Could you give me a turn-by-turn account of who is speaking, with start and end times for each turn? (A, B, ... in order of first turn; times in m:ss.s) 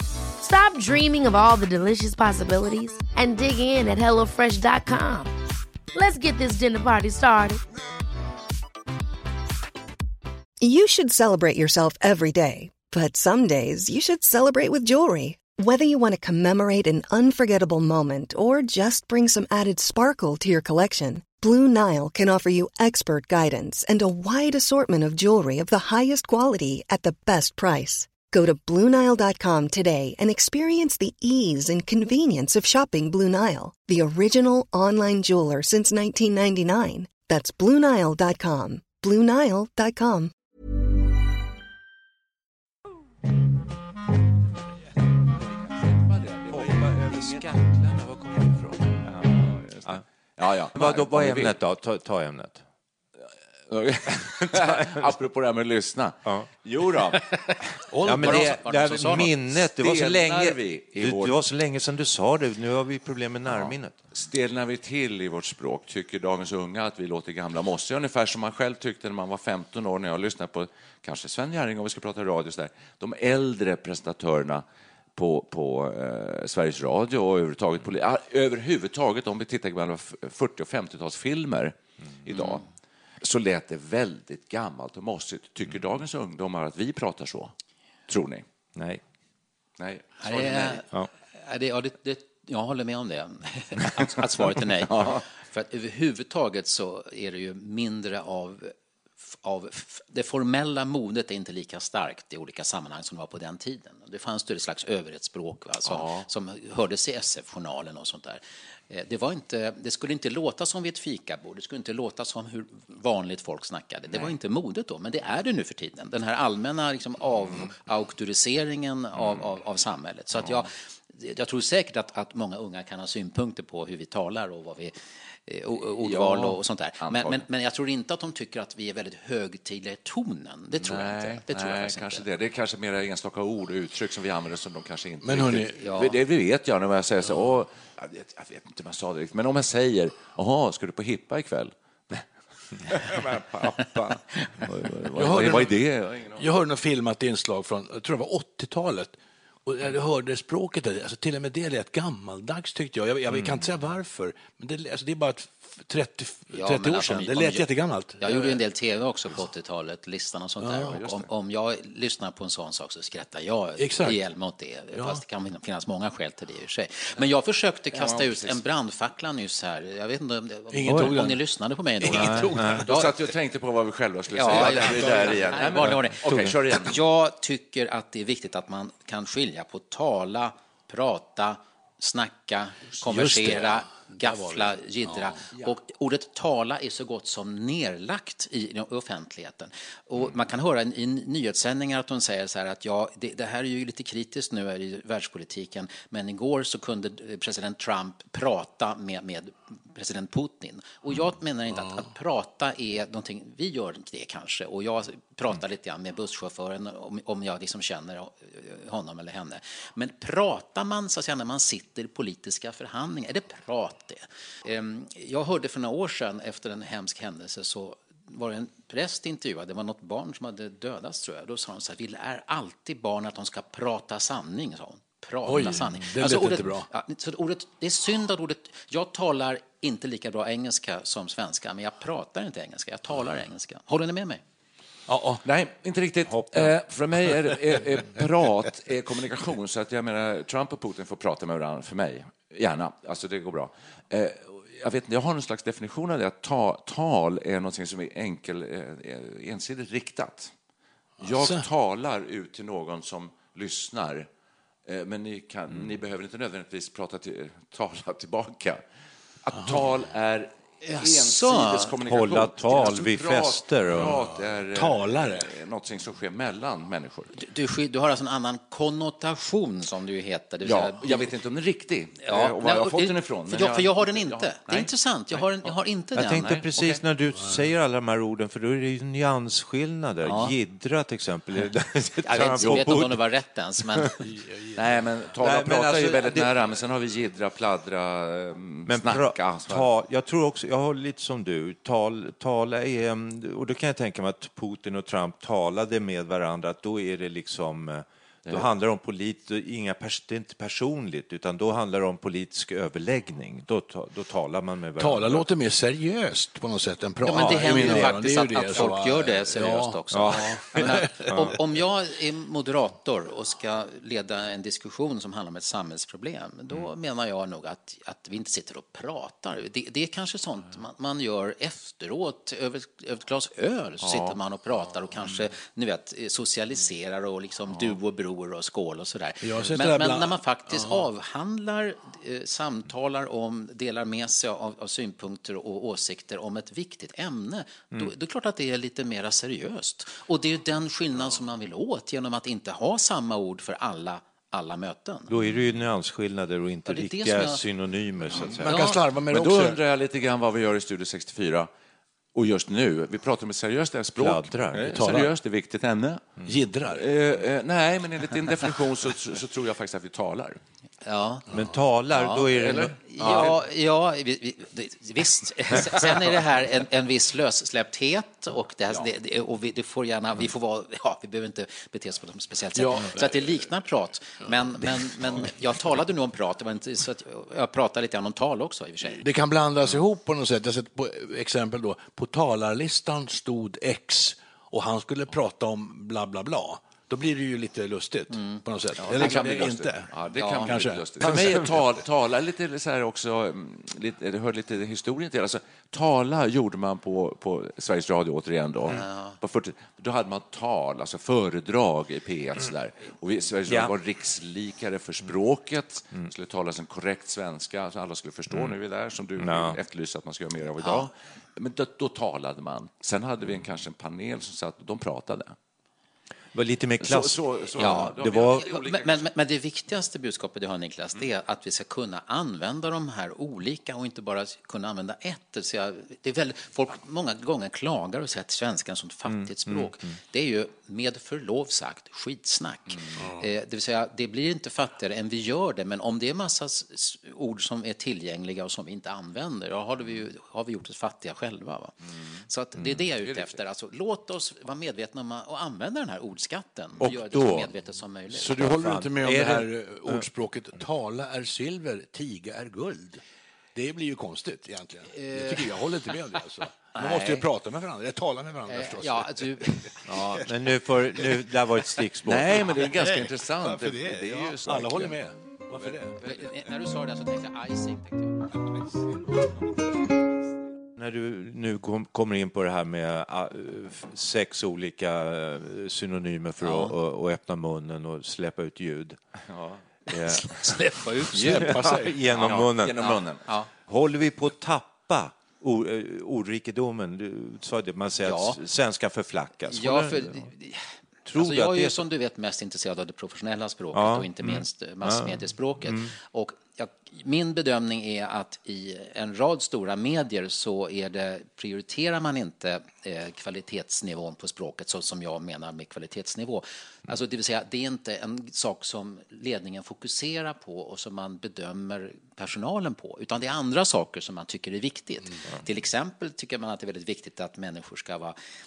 0:00.4-0:05.3 A
0:05.9-0:07.6 A
0:10.6-0:40.3 B
0:45.5-0:47.9 C
0:46.5-0:49.2 D
0:48.8-0:51.6 C
0:50.7-0:52.6 D
0:53.2-0:57.3 C
0:54.5-0:55.1 D
0:57.5-0:59.3 E
0:58.0-1:04.0 D
0:58.2-0:58.5 C
0:59.2-1:01.4 C
1:03.5-1:14.6 C
1:15.2-1:22.6 C
1:22.3-1:22.6 E
1:23.2-1:27.5 C
1:28.1-1:28.4 C
1:28.8-1:29.0 D
1:29.8-1:30.8 C
1:30.2-1:38.7 E
1:34.6-1:35.2 C
1:39.3-2:04.9 E
1:45.8-1:46.3 C
1:59.2-1:59.5 C
2:00.4-2:00.6 C
2:05.4-2:12.2 E
2:06.0-2:07.4 C
2:10.8-2:22.2 C
2:15.2-2:15.8 F
2:15.8-2:16.2 E
2:23.0-2:24.0 D
2:23.1-2:24.1 C
2:24.6-2:26.5 C
2:25.2-2:38.6 F
2:33.3-2:33.6 D
2:36.5-2:37.6 E
2:38.2-2:53.1 E
2:40.6-2:41.0 F
2:40.9-2:41.3 C
2:43.8-2:44.2 F
2:44.9-2:45.2 F
2:47.9-2:48.6 C
2:50.7-2:51.4 F
2:50.9-2:51.1 D
2:52.0-2:53.1 F
2:52.1-2:52.8 D
2:52.8-2:56.9 C
2:54.3-2:56.2 E
2:54.4-2:55.5 F
2:56.2-2:56.6 D
2:56.8-3:54.4 E
3:03.0-3:05.4 F
3:45.4-3:46.9 F
3:55.1-3:55.4 F
3:55.4-4:10.5 C
3:56.3-3:56.7 D
4:11.2-4:11.7 F
4:11.2-4:14.3 C
4:14.8-4:18.8 C
4:19.4-4:27.3 C
4:20.8-4:21.9 E
4:22.0-4:24.2 D
4:24.7-4:25.5 F
4:27.3-4:31.3 E
4:30.6-4:35.7 C
4:32.2-4:36.6 E
4:36.1-4:43.2 D
4:36.3-4:37.0 C
4:40.2-4:40.5 E
4:42.2-4:44.2 E
4:44.2-4:45.3 F
4:44.8-4:49.9 C
4:45.4-4:46.5 D
4:48.8-5:05.5 D
5:05.0-5:11.3 F
5:07.2-5:45.3 E
5:07.4-5:08.0 D
5:10.1-5:11.5 D
5:24.0-5:24.4 C
5:29.4-5:31.0 F
5:45.3-5:48.7 D
5:46.8-5:47.6 E
5:48.4-5:49.8 F
5:48.6-5:49.0 E
5:49.3-5:51.7 C
5:52.3-5:56.3 C
5:54.2-5:55.0 D
5:54.9-5:55.3 F
5:56.4-5:57.0 F
5:56.9-6:00.6 C
6:01.0-6:01.5 E
6:01.5-6:03.0 D
6:02.1-6:19.2 E
6:02.6-6:03.5 C
6:12.8-6:13.6 F
6:19.2-6:31.9 F
6:28.3-6:28.6 E
6:29.0-6:55.6 C
6:29.2-6:29.5 E
6:30.3-6:30.8 E
6:38.9-6:39.4 E
6:43.7-6:43.9 D
6:49.4-6:49.8 D
6:50.8-6:51.1 E
6:56.5-6:58.7 D
6:57.0-6:59.3 C
6:57.8-7:28.8 E
7:09.3-7:10.1 D
7:13.2-7:13.5 F
7:22.8-7:23.0 D
7:23.2-7:23.6 C
7:27.0-7:27.7 D
7:28.3-7:33.2 F
7:28.8-7:30.3 D
7:33.7-7:39.9 F
7:35.1-7:35.7 E
7:37.0-7:37.4 C
7:38.7-7:40.4 E
7:40.1-7:42.7 D
7:42.2-7:45.2 C
7:42.7-7:46.2 F
7:45.7-7:46.0 C
7:46.2-7:48.4 E
7:51.0-7:59.2 D
7:56.6-7:56.9 E
7:59.5-7:59.8 C
8:00.1-8:00.7 D
8:00.7-8:01.3 E
8:01.0-8:02.2 F
8:01.4-8:03.2 D
8:02.3-8:03.5 C
8:03.8-8:10.5 D
8:08.2-8:08.6 E
8:09.7-8:38.4 E
8:11.2-8:12.0 D
8:13.9-8:16.1 D